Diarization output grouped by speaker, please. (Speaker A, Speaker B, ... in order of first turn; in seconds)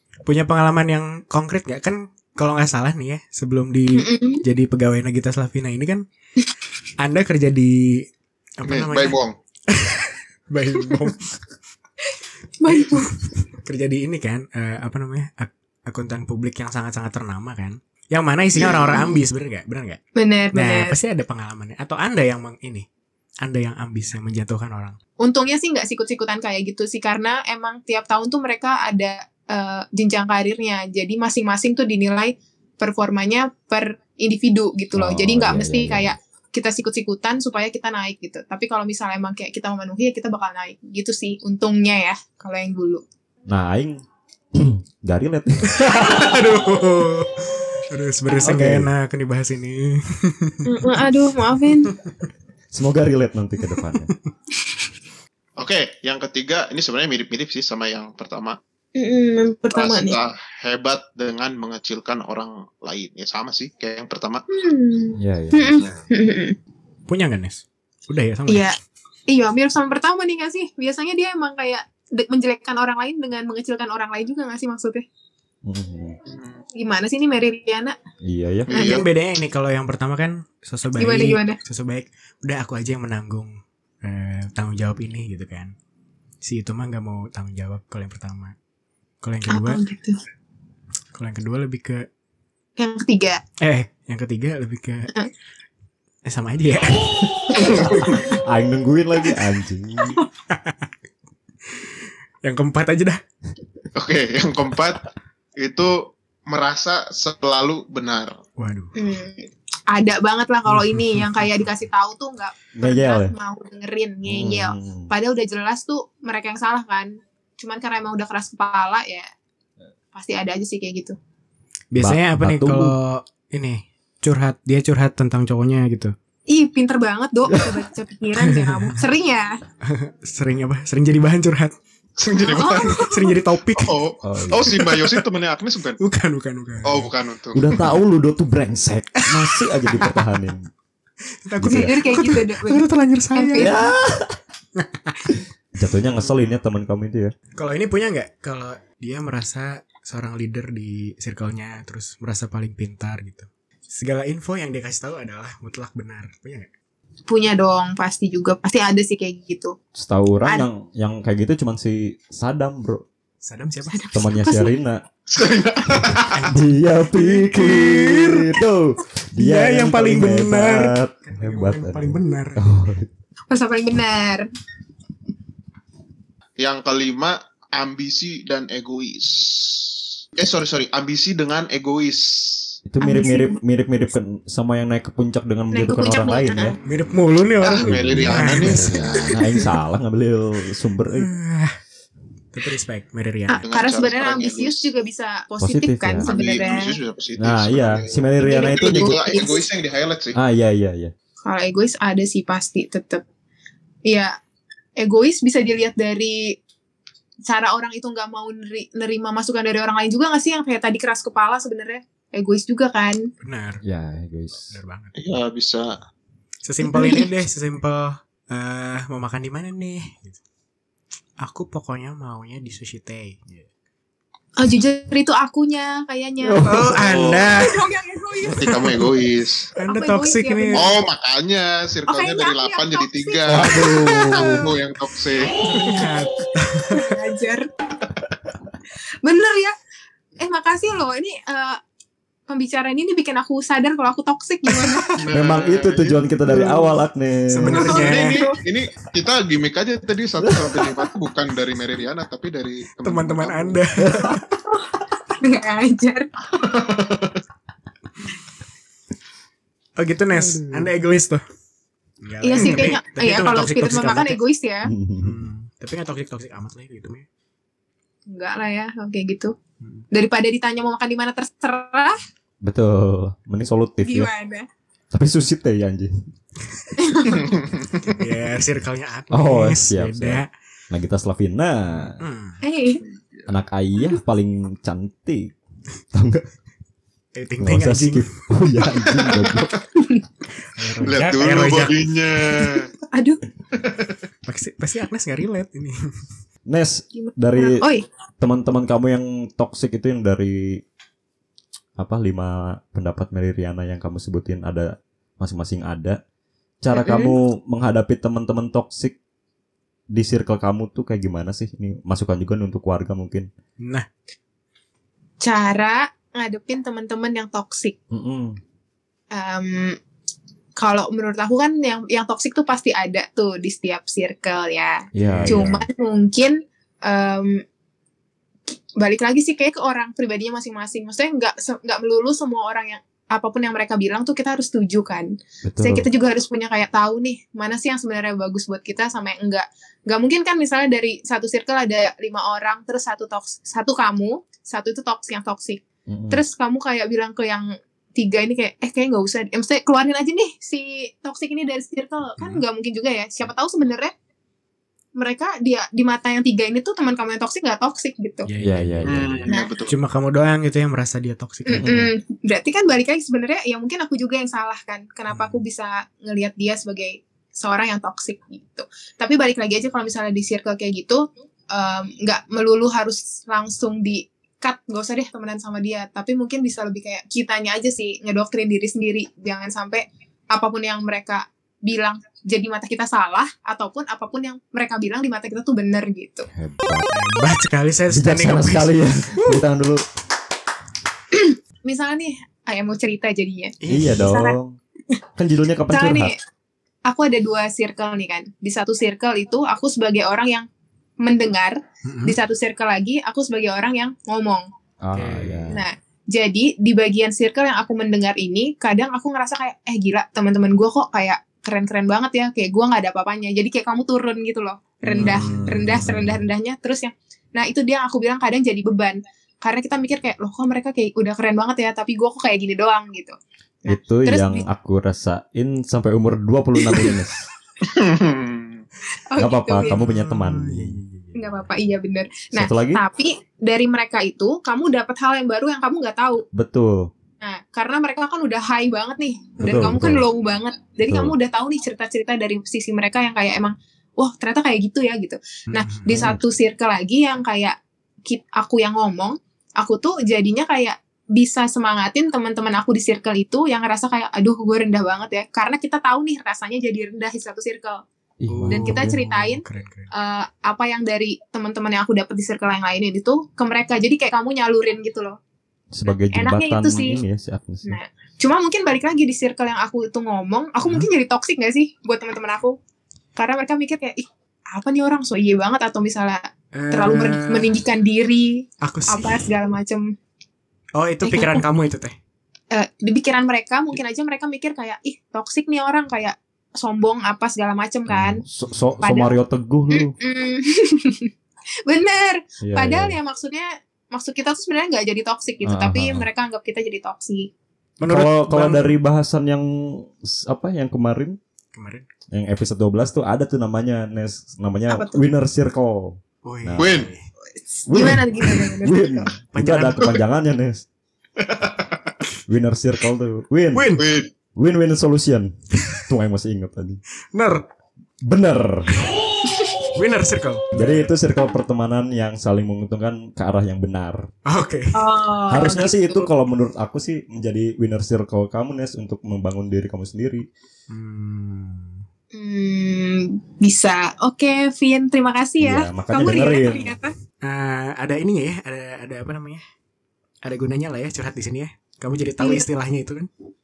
Speaker A: 0.2-6.0, 7.0-8.1, 8.6-11.3, 12.7-20.0, 20.5-22.8, 23.4-25.0, 45.7-50.6, 67.1-68.7, 78.7-85.7, 86.4-88.5, 89.2-89.8, 91.1-92.1, 93.6-95.1, 96.2-97.9, 100.5-100.9, 102.4-103.2, 108.6-108.9, 110.7-111.3, 121.9-126.1, 128.4-129.0, 129.8-131.7, 132.8-134.0, 134.7-135.2, 136.0-137.1, 139.2-140.2, 141.4-143.9, 144.8-145.3, 147.5-156.7, 163.4-164.0, 166.3-168.5, 169.3-172.7, 186.8-189.7, 191.1-191.8, 192.5-193.6, 213.4-213.8, 214.7-215.2, 216.6-220.4, 221.4-223.7, 226.6-227.8, 229.8-230.9, 235.7-237.1, 247.5-248.4, 253.0-254.4, 260.0-261.4, 262.2-264.4, 265.2-267.2, 278.0-280.5, 282.2-282.6, 287.3-288.4, 290.7-292.2, 294.4-296.0, 313.8-314.1, 325.2-325.6, 358.4-362.0, 365.3-365.6, 387.1-389.6, 393.8-394.3, 402.0-402.4, 405.1-405.7, 415.1-416.3, 429.8-431.6, 445.7-446.1, 458.5-460.1, 470.8-471.1, 476.7-477.7, 478.8-479.5, 480.9-482.1, 498.0-498.9, 501.7-502.1, 506.4-507.2, 509.5-510.2, 513.7-514.1, 517.3-517.6, 519.9-521.1, 524.5-524.9, 530.9-532.0, 537.4-539.6, 540.4-543.3
Speaker B: 3.9-4.4, 12.6-13.1, 20.1-20.9, 25.2-43.0, 50.6-51.9, 59.0-60.2, 64.5-66.5, 68.5-68.8, 69.3-75.0, 76.8-77.9, 78.7-79.0, 81.0-81.6, 89.5-90.2, 92.8-93.4, 109.0-119.3, 120.1-121.2, 126.5-129.6, 132.4-133.4, 141.6-142.8, 143.3-143.7, 157.3-159.8, 163.9-164.8, 173.5-174.5, 183.0-183.6, 185.7-186.8, 193.5-196.9, 198.4-199.7, 201.4-203.2, 204.1-204.3, 205.0-206.6, 207.4-213.2, 216.8-217.3, 224.6-228.9, 229.8-230.9, 232.1-234.6, 236.9-237.7, 239.2-239.7, 240.4-241.8, 242.5-245.1, 246.4-246.9, 247.7-248.6, 255.4-256.3, 262.4-264.9, 268.3-269.5, 270.1-272.1, 274.0-274.7, 277.0-277.6, 282.6-283.0, 289.9-290.2, 293.1-293.4, 297.1-298.1, 306.9-307.4, 315.4-317.9, 319.3-320.0, 320.8-327.6, 328.7-354.1, 355.1-358.5, 361.6-386.5, 391.3-394.6, 395.9-396.4, 397.1-400.6, 401.2-404.6, 405.7-424.6, 429.2-430.0, 431.3-436.4, 437.4-458.0, 458.7-465.4, 466.3-467.2, 467.8-472.8, 473.4-480.1, 481.2-481.6, 482.7-488.4, 489.0-489.3, 489.9-491.3, 491.9-497.5, 504.9-505.2, 507.6-509.3, 519.5-519.8, 524.9-526.3, 532.3-537.1, 542.4-542.6
Speaker C: 8.6-9.3, 18.5-19.2, 55.6-58.6, 59.7-64.4, 76.3-76.6, 78.7-79.0, 97.5-98.2, 103.9-105.0, 105.6-108.4, 132.2-133.1, 133.7-136.0, 136.8-137.6, 165.3-166.5, 176.6-182.8, 187.6-189.6, 193.6-194.9, 196.2-200.4, 215.2-215.9, 227.1-227.5, 228.6-229.7, 230.7-235.8, 245.2-246.2, 247.7-253.8, 256.5-257.4, 262.6-262.9, 277.3-278.2, 283.0-283.5, 289.0-289.6, 291.0-292.9, 359.0-359.9, 427.8-428.8, 506.8-507.1, 511.4-512.1, 514.0-514.3
Speaker D: 34.9-36.1, 43.5-44.0, 44.5-46.2, 48.4-48.9, 52.7-54.1, 65.2-65.9, 75.6-76.2, 78.2-78.7, 97.4-100.2, 112.7-113.3, 114.3-115.1, 122.0-122.9, 134.2-134.8, 137.5-140.7, 141.6-141.9, 143.6-144.4, 145.8-147.3, 159.9-163.0, 164.1-165.0, 166.0-173.1, 182.8-186.8, 187.8-191.3, 195.6-196.3, 197.4-199.2, 200.3-201.1, 213.8-214.7, 226.4-227.4, 233.5-234.6, 245.3-247.9, 250.4-250.9, 254.0-254.4, 264.9-265.4, 272.6-274.3, 275.1-276.1, 279.3-282.2, 283.5-285.6, 286.1-286.4, 287.6-289.8, 296.7-297.9, 298.4-300.8, 302.0-306.2, 306.8-309.2, 310.1-313.5, 318.1-318.6, 325.1-325.8, 335.6-336.1, 346.1-346.4, 358.6-359.5, 361.7-362.1, 386.5-387.1, 388.1-390.0, 393.9-394.8, 395.4-396.3, 405.0-405.8, 415.1-416.4, 423.9-427.4, 429.4-431.0, 432.5-433.0, 436.5-437.1, 439.6-440.2, 441.1-441.3, 446.1-446.4, 458.4-459.2, 465.9-468.0, 488.1-490.1, 492.6-493.2, 495.6-496.3, 498.1-501.4, 502.3-507.1, 507.9-510.9, 512.5-514.0, 514.5-515.5, 516.1-517.0, 518.2-519.0, 520.7-524.3, 525.5-530.5, 535.6-537.0